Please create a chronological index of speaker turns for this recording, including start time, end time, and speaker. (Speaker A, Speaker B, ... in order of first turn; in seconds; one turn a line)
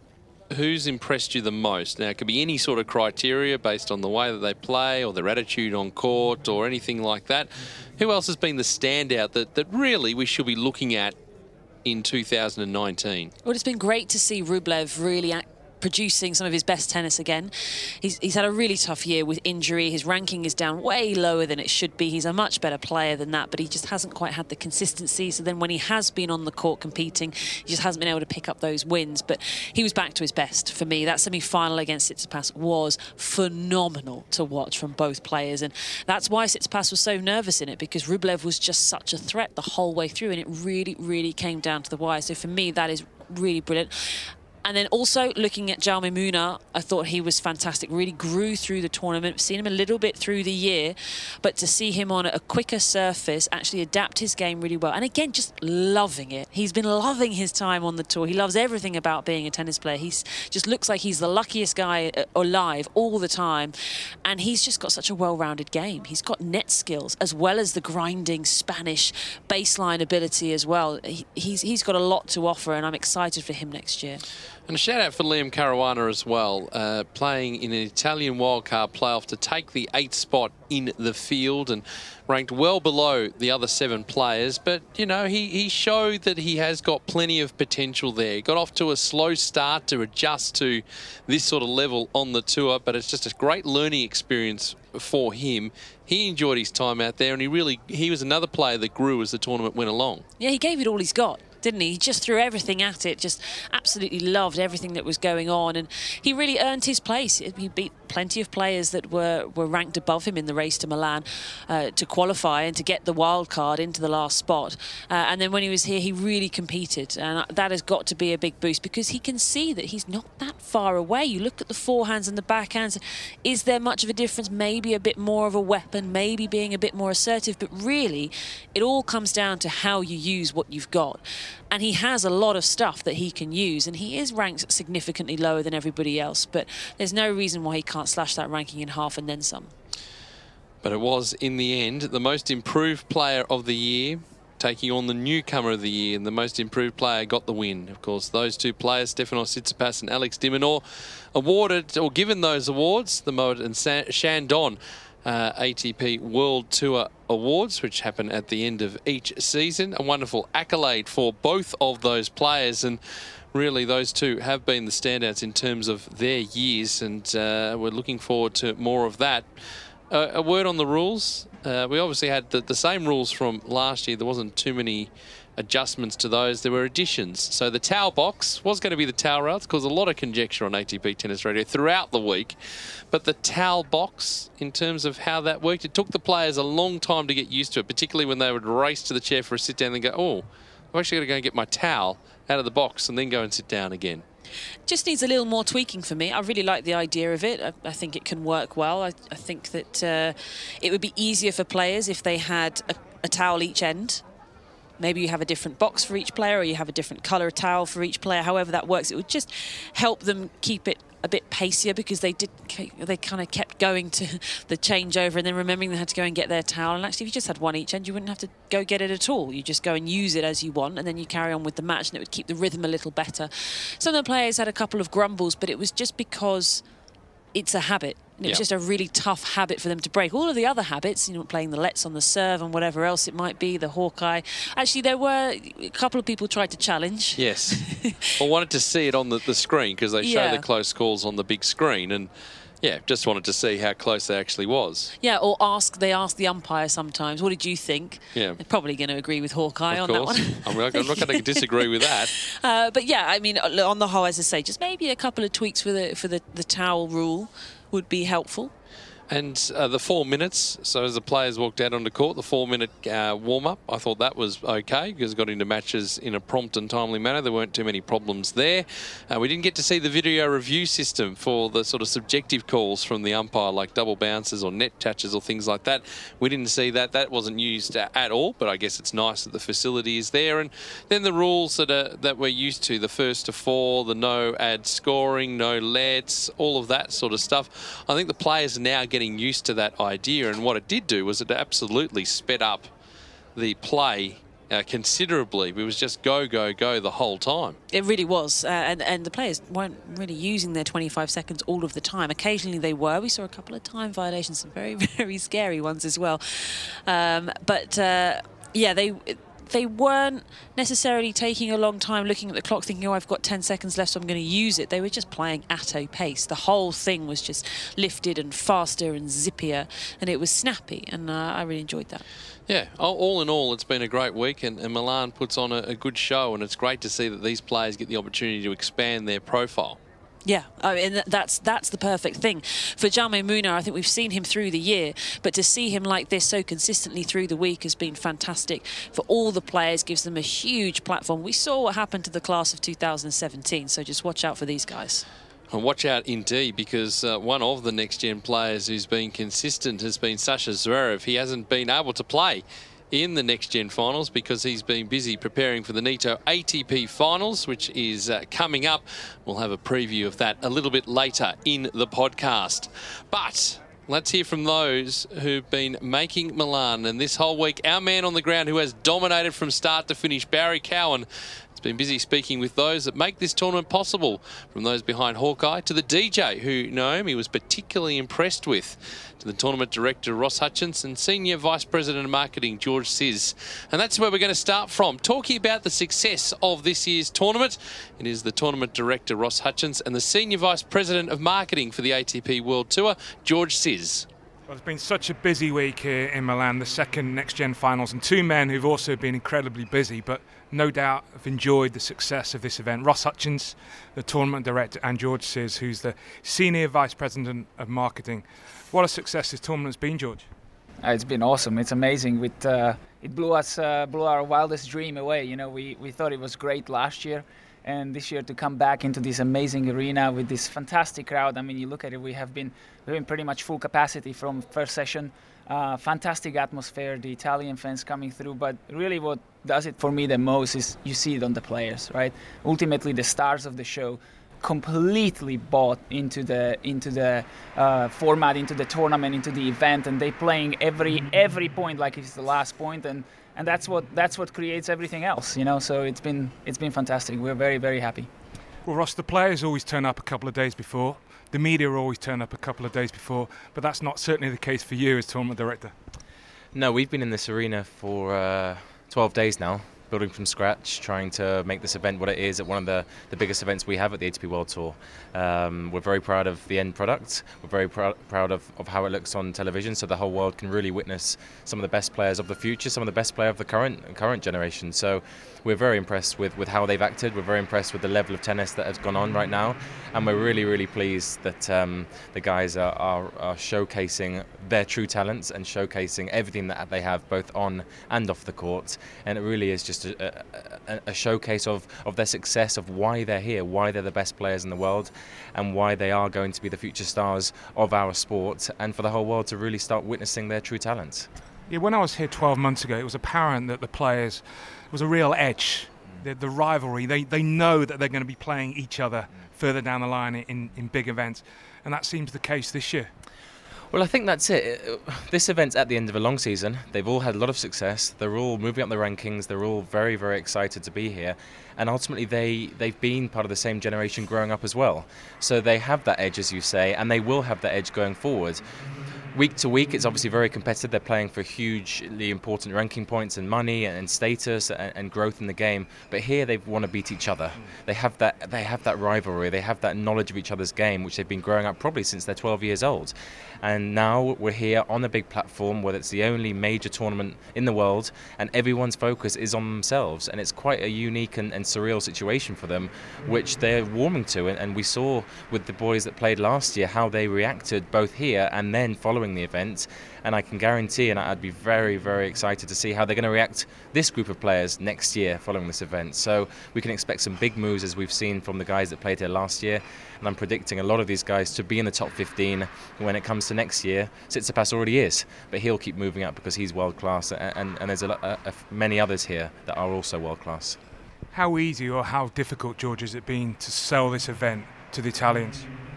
Speaker A: 0.5-11.2
Speaker A: 11.8-13.3
Speaker B: 13.4-63.7
Speaker B: 64.2-74.2
Speaker A: 74.7-100.2
Speaker B: 100.4-139.7
Speaker A: 140.8-150.8
Speaker A: 151.3-163.0
Speaker A: 163.5-169.6
Speaker A: 170.1-182.6
Speaker A: 183.1-194.2
Speaker B: 194.9-204.2
Speaker B: 205.0-226.8
Speaker B: 227.5-238.3
Speaker A: 237.4-242.3
Speaker B: 240.2-240.6
Speaker A: 242.8-245.1
Speaker B: 245.2-251.6
Speaker A: 248.3-248.6
Speaker A: 249.9-252.3
Speaker B: 252.4-258.7
Speaker A: 259.3-292.9
Speaker A: 293.6-297.8
Speaker B: 297.9-322.2
Speaker A: 322.7-330.0
Speaker B: 330.4-345.2
Speaker A: 345.7-394.3
Speaker C: 394.7-410.4
Speaker D: 411.0-448.3
Speaker C: 448.8-455.9
Speaker E: 456.7-501.3
Speaker C: 501.7-513.1
Speaker E: 513.9-528.7
Speaker E: 529.3-580.8
Speaker C: 581.3-585.7